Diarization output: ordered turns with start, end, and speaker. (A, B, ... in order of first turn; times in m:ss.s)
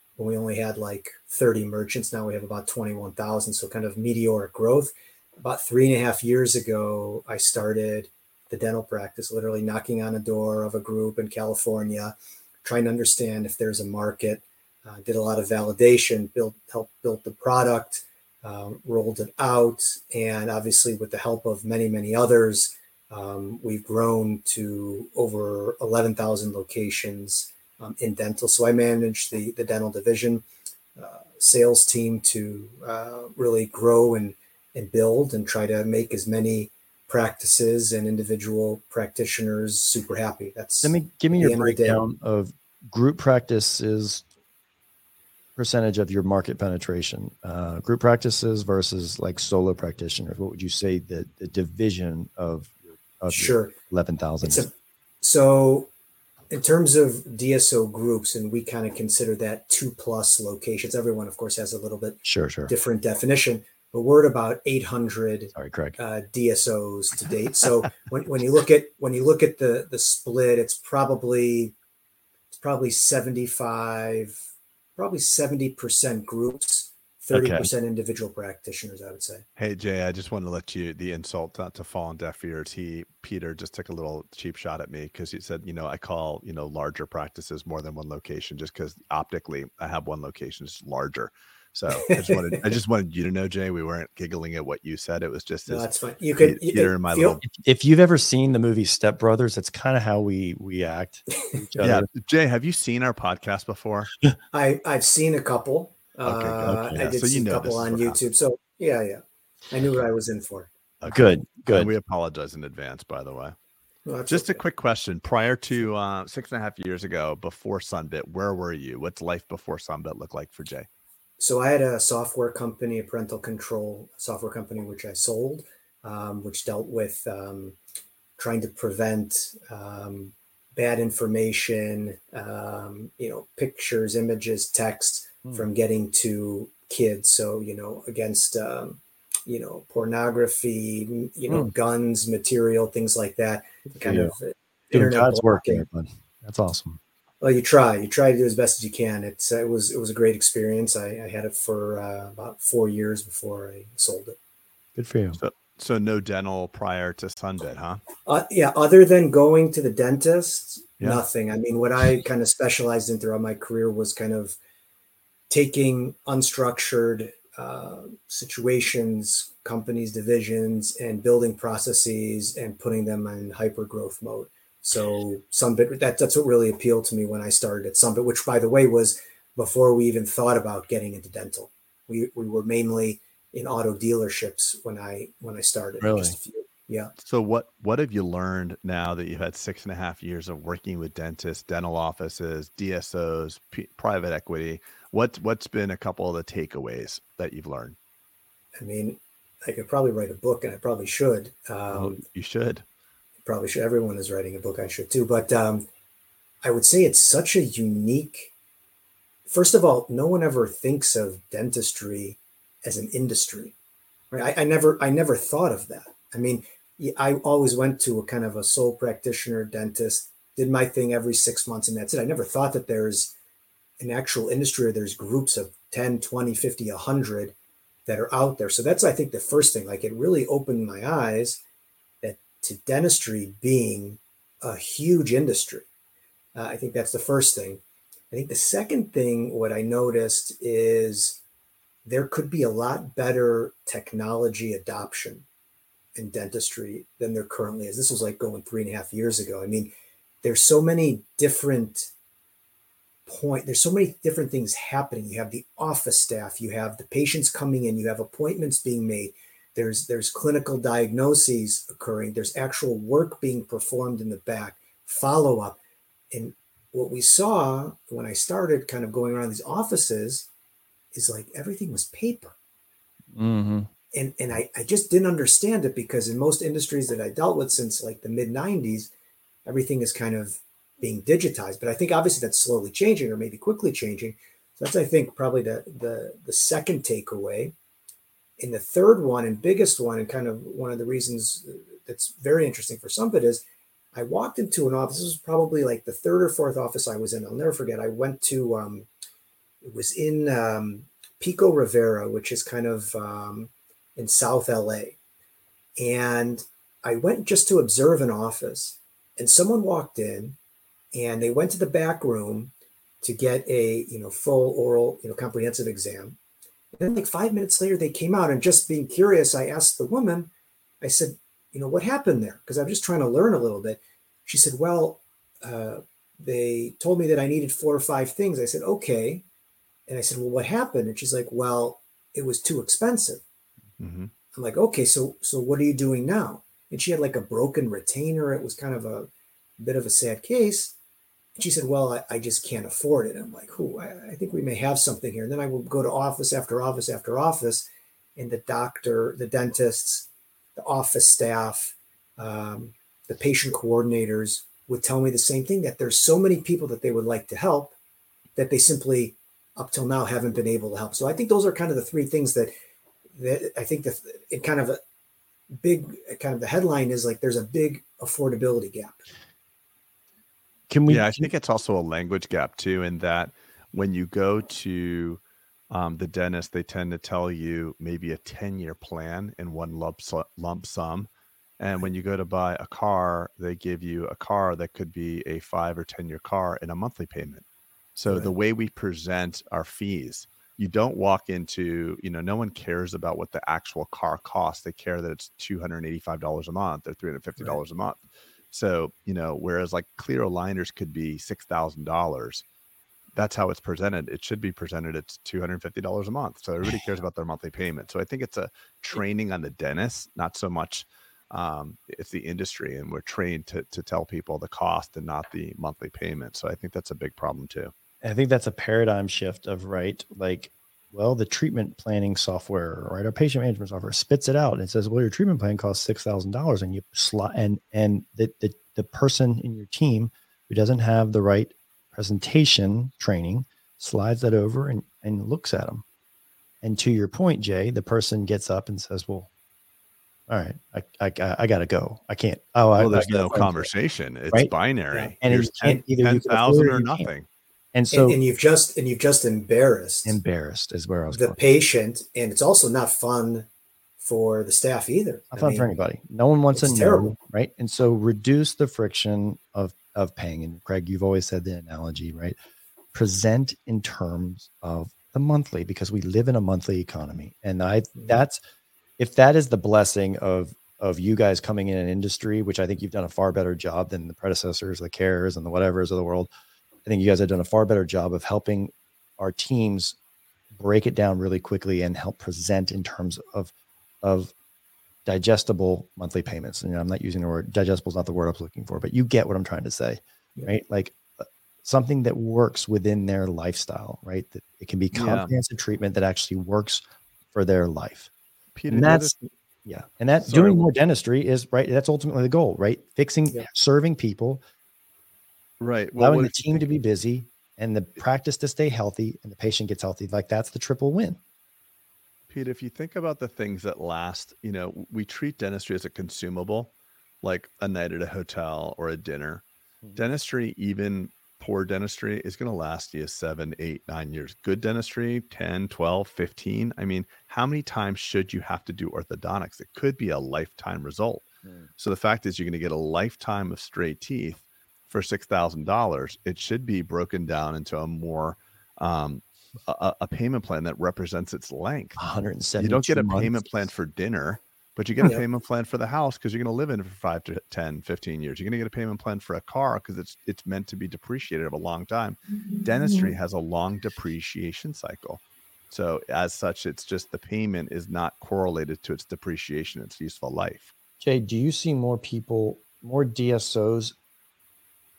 0:00.2-0:30.4 A
0:31.0-0:42.0 A
0:40.8-0:44.2 B
0:45.6-0:54.7 B
0:53.3-0:53.7 A
0:54.4-0:54.7 A
0:55.2-0:55.9 A
0:56.5-1:11.7 A
1:02.2-1:02.7 B
1:05.5-1:06.0 B
1:12.5-1:14.4 A
1:15.0-1:19.4 A
1:17.3-1:17.7 B
1:19.6-1:37.4 C
1:32.0-1:32.6 A
1:35.7-1:37.4 A
1:37.4-1:42.1 B
1:41.3-1:41.6 A
1:41.8-1:44.1 C
1:44.5-1:50.7 A
1:46.2-1:48.2 C
1:46.6-1:47.0 B
1:51.0-1:53.6 C
1:51.1-1:51.9 B
1:54.0-1:54.6 A
1:54.3-2:00.9 C
2:01.4-2:07.8 A
2:08.4-2:25.8 A
2:23.9-2:24.3 B
2:24.9-2:27.0 B
2:27.4-2:34.4 A
2:35.0-2:35.4 B
2:35.4-2:38.0 C
2:38.2-2:44.6 A
2:45.5-3:07.1 A
3:06.0-3:06.4 B
3:07.2-3:18.0 C
3:18.8-3:22.2 A
3:21.9-3:22.8 C
3:23.4-3:25.9 A
3:26.6-3:28.5 A
3:29.5-3:33.7 A
3:34.3-3:43.3 A
3:44.0-3:47.5 A
3:48.1-3:51.6 A
3:52.2-3:55.8 A
3:56.5-4:01.4 A
4:02.0-4:05.4 A
4:06.2-4:09.9 A
4:10.4-4:12.1 A
4:13.2-4:25.8 A
4:26.3-4:30.5 A
4:31.1-4:32.6 A
4:33.3-4:33.9 B
4:34.1-4:39.1 A
4:39.6-4:47.7 A
4:48.6-4:53.6 A
4:54.1-4:59.1 A
4:59.8-5:05.2 A
5:06.0-5:10.6 A
5:11.1-5:12.7 A
5:13.2-5:16.4 A
5:17.0-5:20.5 A
5:21.0-5:29.4 A
5:30.1-5:33.4 A
5:34.0-5:34.3 C
5:34.5-5:40.9 A
5:41.6-5:57.9 A
5:58.6-6:02.7 A
6:03.4-6:05.0 A
6:05.8-6:09.2 A
6:10.9-6:11.5 B
6:11.1-6:27.6 C
6:28.2-6:38.2 C
6:38.7-6:42.6 C
6:43.3-6:57.9 C
6:58.2-7:16.0 B
7:16.8-7:19.5 B
7:20.5-7:23.9 B
7:23.0-7:27.4 C
7:25.4-7:27.3 B
7:27.9-7:28.4 B
7:28.1-7:30.4 A
7:30.2-7:31.6 B
7:31.3-7:33.7 A
7:34.2-7:35.9 A
7:35.5-7:42.6 B
7:36.7-7:37.3 A
7:43.1-7:48.6 B
7:49.2-7:56.5 B
7:57.0-8:00.2 B
8:00.7-8:03.7 B
8:04.2-8:04.5 B
8:05.2-8:18.3 B
8:15.1-8:15.5 C
8:18.8-8:19.3 C
8:18.9-8:19.3 B
8:19.8-8:24.6 B
8:20.5-8:20.8 C
8:25.8-8:26.8 C
8:26.2-8:31.4 B
8:32.5-8:51.4 C
8:52.0-9:02.2 C
9:02.2-9:03.6 B
9:02.8-9:20.9 C
9:21.2-9:24.1 B